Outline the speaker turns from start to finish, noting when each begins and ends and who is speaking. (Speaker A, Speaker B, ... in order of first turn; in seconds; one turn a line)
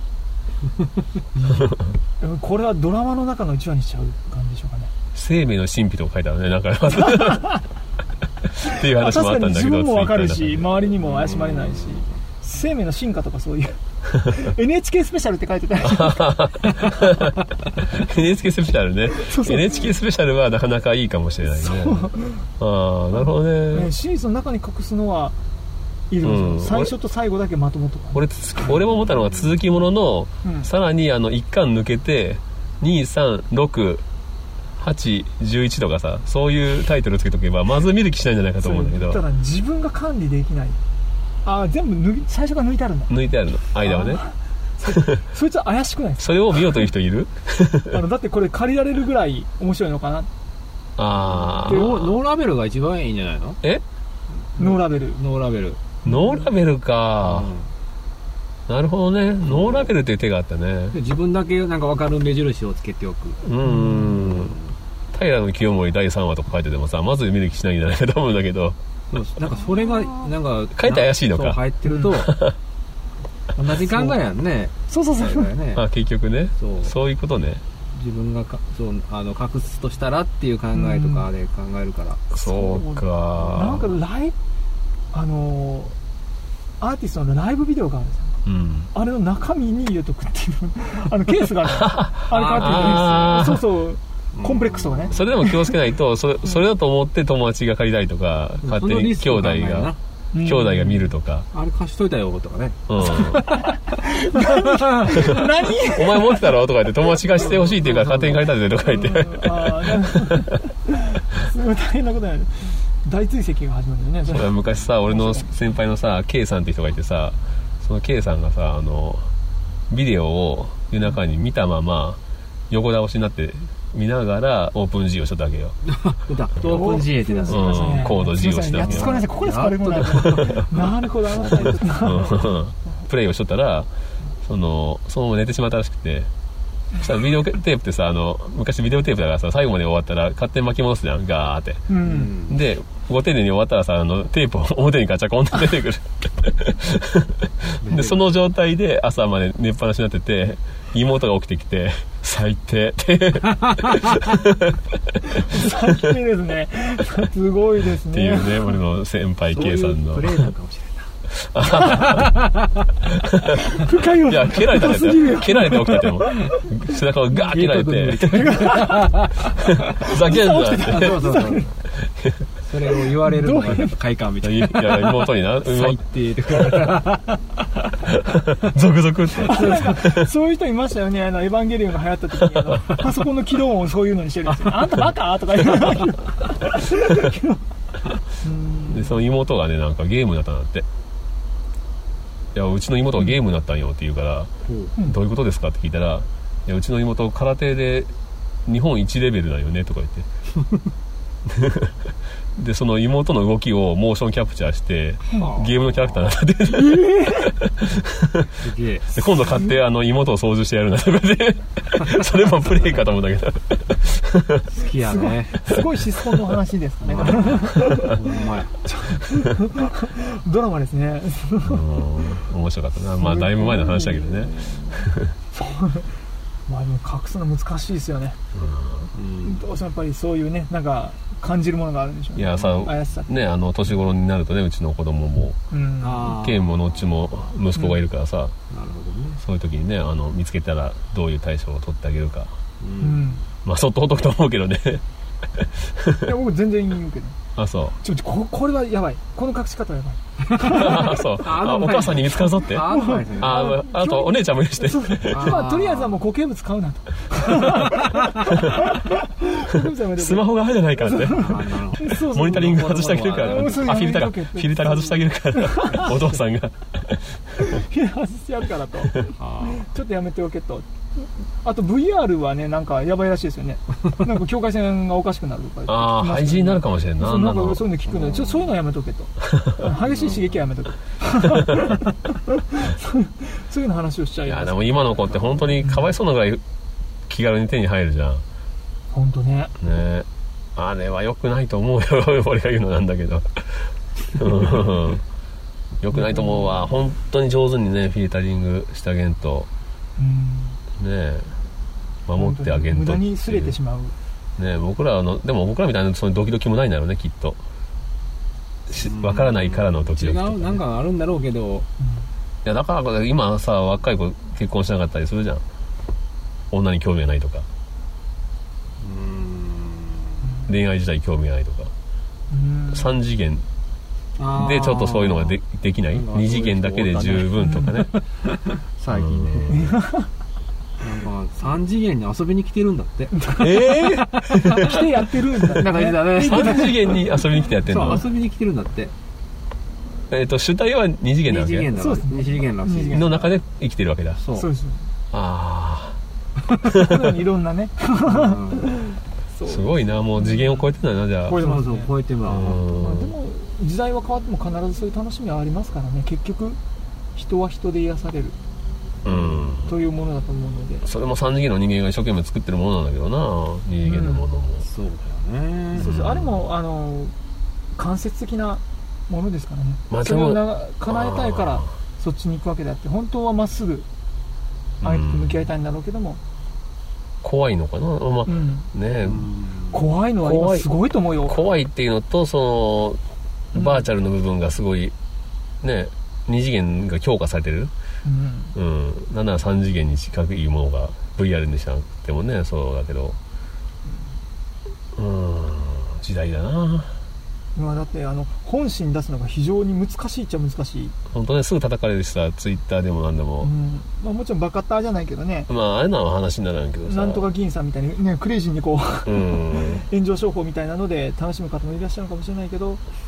Speaker A: 1.4-4.9
Speaker B: 5.1-7.6
Speaker A: 7.0-7.6
Speaker A: 8.6-16.5
Speaker B: 8.7-10.7
Speaker C: 11.0-12.2
Speaker B: 15.8-17.3
Speaker B: 17.9-23.9
Speaker A: 19.1-19.9
Speaker A: 21.6-22.5
Speaker A: 23.7-25.4
Speaker A: 26.1-28.3
Speaker B: 26.2-26.9
Speaker B: 28.1-34.0
Speaker A: 30.4-30.7
Speaker B: 34.8-39.2
Speaker A: 38.6-40.8
Speaker A: 41.4-43.1
Speaker B: 43.1-44.2
Speaker A: 43.8-46.7
Speaker B: 46.2-48.0
Speaker A: 47.9-50.3
Speaker B: 51.0-52.1
Speaker C: 51.3-53.6
Speaker A: 51.7-52.1
Speaker A: 54.6-55.2
Speaker C: 54.6-55.8
Speaker A: 56.0-56.5
Speaker B: 56.0-57.5
Speaker C: 57.2-57.7
Speaker B: 58.7-61.0
Speaker C: 59.5-59.9
Speaker C: 60.9-63.4
Speaker B: 63.4-64.6
Speaker A: 63.6-64.1
Speaker C: 64.2-64.7
Speaker B: 65.1-68.8
Speaker C: 69.1-72.3
Speaker B: 70.8-71.6
Speaker B: 72.2-72.5
Speaker C: 73.5-75.8
Speaker A: 74.9-75.5
Speaker B: 75.7-77.6
Speaker C: 76.6-76.9
Speaker C: 77.9-82.2
Speaker A: 80.7-81.3
Speaker B: 82.3-83.9
Speaker A: 82.4-84.3
Speaker C: 83.4-83.8
Speaker A: 85.1-86.0
Speaker A: 86.8-88.4
Speaker B: 88.5-88.9
Speaker A: 88.9-95.7
Speaker B: 91.8-93.7
Speaker C: 92.3-93.4
Speaker C: 94.4-95.3
Speaker B: 95.1-101.5
Speaker C: 98.6-100.0
Speaker A: 100.3-101.1
Speaker C: 101.5-103.7
Speaker B: 102.9-103.5
Speaker A: 103.9-106.5
Speaker C: 104.4-105.1
Speaker B: 105.3-110.4
Speaker C: 107.4-108.5
Speaker A: 108.9-115.5
Speaker B: 114.3-119.3
Speaker B: 119.9-125.8
Speaker C: 125.9-128.2
Speaker A: 126.7-132.5
Speaker B: 127.5-129.2
Speaker C: 128.8-132.2
Speaker B: 130.2-130.6
Speaker B: 132.0-133.9
Speaker B: 134.4-136.3
Speaker B: 137.0-154.7
Speaker A: 141.9-142.3
Speaker C: 142.0-142.6
Speaker C: 147.8-148.2
Speaker A: 155.2-158.8
Speaker B: 158.1-160.4
Speaker C: 159.5-161.1
Speaker B: 161.5-162.3
Speaker B: 163.3-163.6
Speaker A: 163.7-166.5
Speaker B: 164.1-168.6
Speaker C: 167.3-169.3
Speaker A: 168.3-169.3
Speaker B: 169.8-171.3
Speaker A: 169.9-171.7
Speaker C: 170.8-171.7
Speaker C: 172.6-177.5
Speaker A: 173.2-174.0
Speaker B: 174.4-176.0
Speaker B: 176.6-176.9
Speaker B: 178.1-180.3
Speaker A: 179.4-187.6
Speaker A: 188.4-189.2
Speaker B: 188.9-190.9
Speaker B: 192.6-198.1
Speaker C: 194.7-194.9
Speaker B: 198.7-200.3
Speaker B: 201.5-202.0
Speaker B: 202.6-208.5
Speaker C: 205.3-206.3
Speaker A: 206.7-207.5
Speaker C: 208.6-209.1
Speaker B: 209.1-214.7
Speaker A: 209.2-209.8
Speaker C: 214.7-215.6
Speaker A: 215.0-218.2
Speaker B: 215.7-216.0
Speaker C: 217.0-218.8
Speaker A: 218.8-221.8
Speaker B: 221.6-225.3
Speaker A: 223.2-228.4
Speaker B: 228.5-229.1
Speaker C: 229.2-229.7
Speaker A: 229.4-233.3
Speaker B: 232.4-235.6
Speaker C: 232.6-232.9
Speaker A: 235.7-236.4
Speaker C: 236.0-236.7
Speaker B: 236.3-238.6
Speaker A: 237.8-238.0
Speaker C: 238.7-239.4
Speaker B: 239.4-242.5
Speaker C: 242.8-243.4
Speaker A: 243.0-243.4
Speaker B: 243.6-245.0
Speaker B: 245.6-246.2
Speaker A: 246.2-247.4
Speaker B: 247.6-248.0
Speaker A: 248.0-251.2
Speaker B: 250.6-255.6
Speaker C: 250.7-253.7
Speaker A: 252.8-266.4
Speaker C: 255.3-256.2
Speaker B: 260.1-267.4
Speaker C: 261.3-263.9
Speaker A: 267.6-284.9
Speaker C: 269.4-269.9
Speaker B: 275.9-277.9
Speaker C: 278.1-278.7
Speaker C: 279.8-280.7
Speaker B: 284.5-286.6
Speaker B: 287.3-288.4
Speaker A: 289.1-289.7
Speaker B: 289.8-295.2
Speaker B: 296.0-299.7
Speaker A: 296.1-296.9
Speaker A: 300.2-300.8
Speaker B: 301.0-301.6
Speaker B: 302.3-303.8
Speaker A: 302.4-304.1
Speaker B: 304.6-307.6
Speaker B: 308.9-310.8
Speaker C: 308.9-311.9
Speaker A: 312.0-312.3
Speaker B: 312.6-315.6
Speaker B: 316.7-317.7
Speaker C: 319.0-320.4
Speaker B: 320.7-321.9
Speaker A: 322.5-323.1
Speaker B: 322.9-323.6
Speaker C: 324.4-325.6
Speaker B: 324.5-328.1
Speaker C: 326.1-327.5
Speaker A: 327.6-328.0
Speaker C: 328.4-329.9
Speaker B: 329.1-330.0
Speaker A: 329.7-330.3
Speaker C: 331.0-333.4
Speaker A: 333.3-334.1
Speaker B: 333.6-335.0
Speaker C: 334.5-334.9
Speaker A: 334.7-337.1
Speaker C: 335.8-337.2
Speaker B: 336.3-338.3
Speaker C: 337.9-339.1
Speaker B: 340.3-341.9
Speaker C: 341.5-343.3
Speaker A: 342.0-343.5
Speaker B: 343.1-344.4
Speaker C: 344.4-344.7
Speaker A: 344.5-345.1
Speaker B: 345.3-346.2
Speaker A: 346.8-350.9
Speaker B: 346.9-347.1
Speaker C: 348.2-348.9
Speaker B: 349.6-351.6
Speaker A: 351.4-352.1
Speaker C: 351.5-353.0
Speaker B: 352.5-353.4
Speaker A: 353.0-356.8
Speaker A: 357.4-358.6
Speaker B: 359.2-359.9
Speaker A: 359.9-361.1
Speaker B: 361.0-364.9
Speaker A: 364.0-364.4
Speaker C: 364.8-366.1
Speaker B: 365.9-366.6
Speaker A: 366.0-367.4
Speaker A: 367.9-374.1
Speaker B: 370.1-371.9
Speaker B: 375.0-375.7
Speaker A: 375.0-376.4
Speaker B: 377.4-379.5
Speaker A: 378.5-378.9
Speaker C: 379.2-380.1
Speaker A: 379.9-381.6
Speaker B: 380.4-383.2
Speaker B: 383.7-385.1
Speaker A: 383.7-384.1
Speaker B: 385.8-387.9
Speaker A: 388.2-388.8
Speaker B: 388.8-393.4
Speaker A: 394.1-394.4
Speaker B: 395.1-397.2
Speaker A: 397.8-401.1
Speaker B: 401.3-403.7
Speaker A: 403.6-405.7
Speaker B: 405.7-407.5
Speaker A: 407.1-413.0
Speaker B: 409.3-410.1